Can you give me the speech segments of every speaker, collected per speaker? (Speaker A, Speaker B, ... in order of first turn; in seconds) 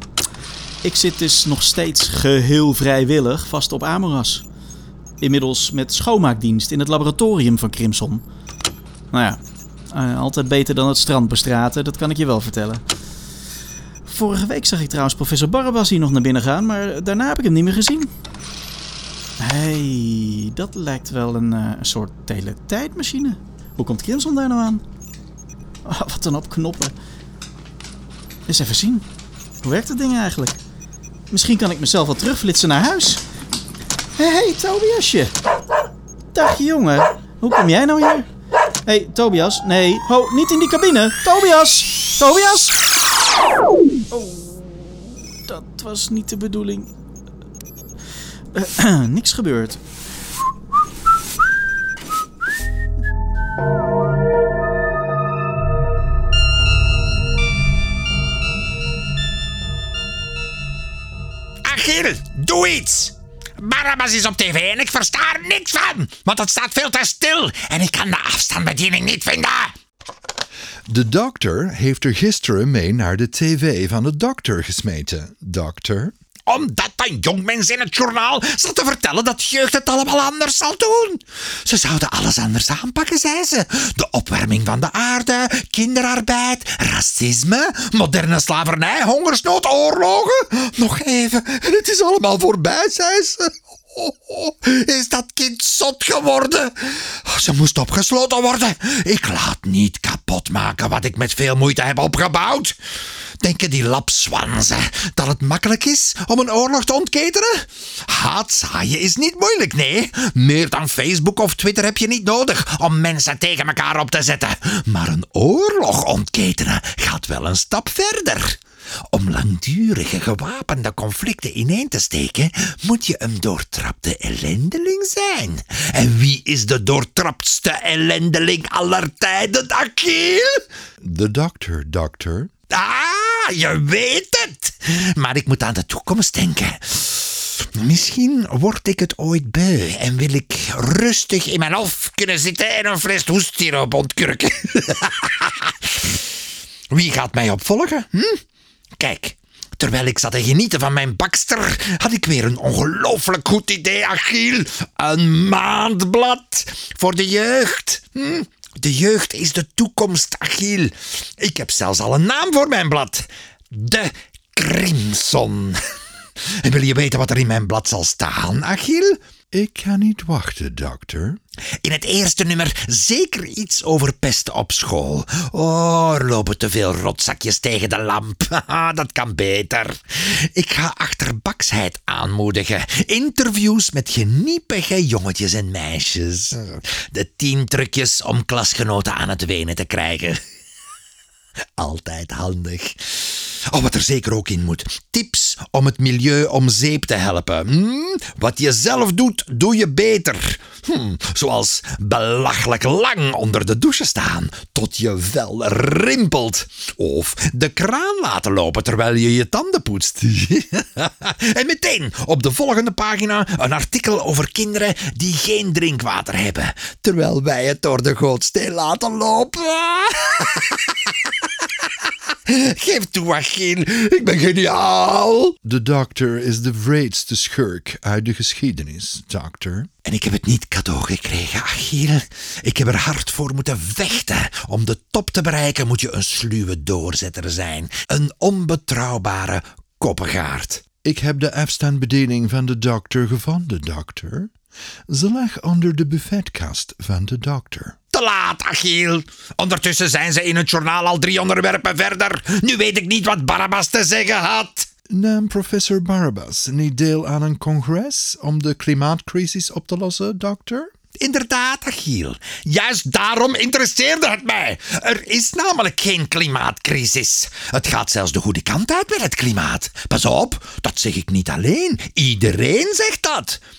Speaker A: 0.8-4.4, 5.2-8.2, 9.1-9.4, 9.9-12.8, 14.1-18.1, 19.4-24.8, 25.9-26.9, 28.5-29.1, 29.6-30.6, 31.3-33.2, 34.1-35.3, 36.3-38.3, 38.9-42.9, 44.1-46.9, 48.5-49.8
Speaker B: 61.6-69.7, 76.5-102.8, 103.4-118.6, 119.1-130.6, 132.7-146.3, 146.9-148.4, 149.0-165.8, 166.6-169.2, 171.8-190.4, 191.8-221.1, 222.5-225.6, 230.1-240.9, 248.1-254.9, 261.2-273.6
Speaker C: 70.9-76.1, 131.0-132.5, 169.5-171.4, 225.7-229.9, 241.0-244.5, 245.1-248.0, 255.1-260.9